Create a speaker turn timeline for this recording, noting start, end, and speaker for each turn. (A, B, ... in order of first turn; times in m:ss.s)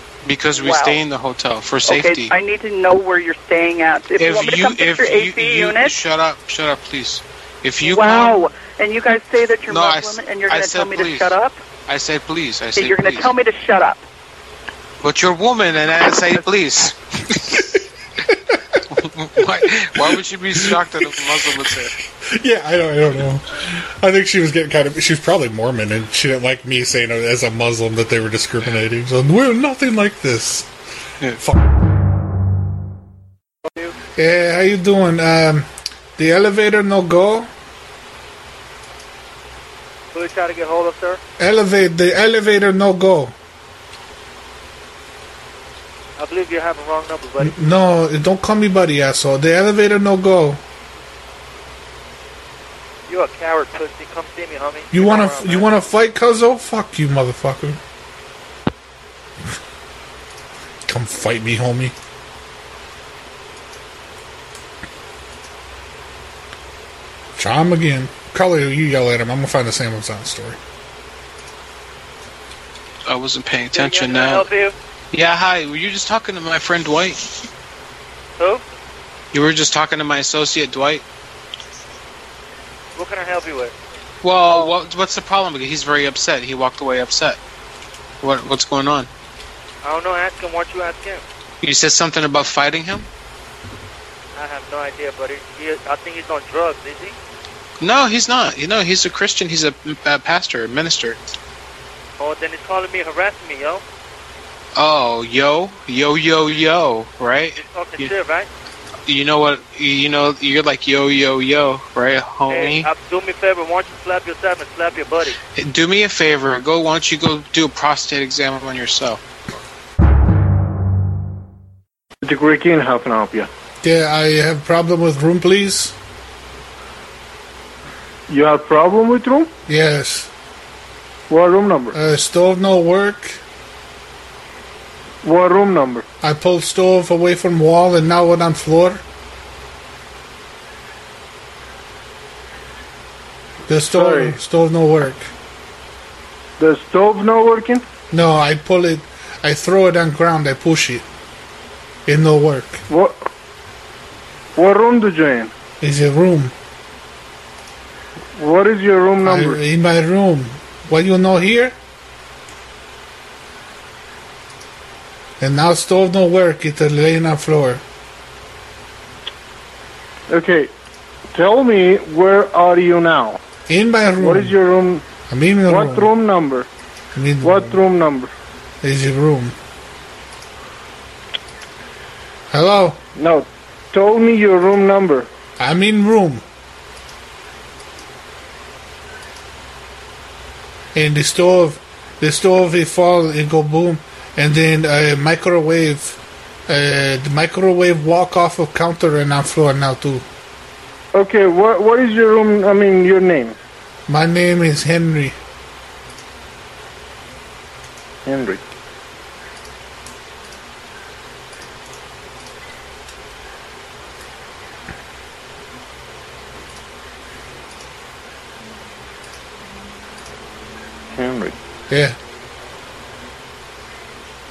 0:00.2-0:02.3 A
0:00.5-0:01.0 B
0:01.9-0:06.0 B
0:04.2-0:08.4 A
0:07.8-0:11.6 B
0:09.7-0:11.3 A
0:11.8-0:13.3 A
0:12.8-0:14.0 B
0:15.0-0:17.6 A
0:19.0-0:21.9 A
0:21.1-0:21.7 C
0:22.2-0:30.7 C
0:34.2-0:37.5 C
0:40.1-0:41.2 D
0:41.4-0:43.3 C
0:46.2-0:47.6 D
0:47.4-0:50.6 C
0:53.1-0:55.7 D
0:54.9-0:57.8 C
1:00.9-1:01.9 C
1:07.4-1:10.6 C
1:13.1-1:14.5 A
1:13.7-1:14.7 D
1:15.1-1:17.3 A
1:18.4-1:18.6 D
1:19.3-1:21.0 A
1:23.0-1:23.8 D
1:24.2-1:27.4 A
1:28.2-1:29.1 A
1:29.8-1:31.2 D
1:31.6-1:33.1 A
1:34.4-1:37.2 D
1:37.8-1:41.2 A
1:42.2-1:43.8 D
1:44.8-1:48.1 A
1:47.6-1:48.5 D
1:49.1-1:52.9 A
1:52.5-1:55.4 D
1:55.5-1:59.2 A
2:02.2-2:03.5 E
2:03.8-2:06.0 C
2:08.3-2:09.5 E
2:09.7-2:10.3 C
2:11.3-2:12.0 E
2:11.9-2:13.4 C
2:15.2-2:16.0 E
2:16.2-2:19.0 C
2:23.7-2:25.3 C
2:23.9-2:24.4 E
2:26.6-2:27.8 E
2:28.1-2:31.0 C
2:32.1-2:32.8 C
2:32.9-2:33.2 E
2:34.6-2:35.5 E
2:35.8-2:36.5 C
2:38.4-2:39.6 E
2:39.2-2:41.8 C
2:45.4-2:47.8 C
2:50.3-2:50.7 E
2:51.3-2:53.4 E
2:53.7-2:54.6 C
2:54.2-2:55.0 E
2:55.3-2:56.1 C
2:55.7-2:56.7 E
2:57.1-2:57.8 C
2:57.4-2:58.3 E
2:58.8-2:59.6 C
3:02.5-3:03.0 C
3:03.2-3:05.3 E
3:05.6-3:06.4 C
3:10.9-3:20.2 C
3:21.1-3:23.6 E
3:24.1-3:25.4 C
3:28.3-3:28.6 E
3:41.1-3:41.6 E
3:41.9-3:42.2 C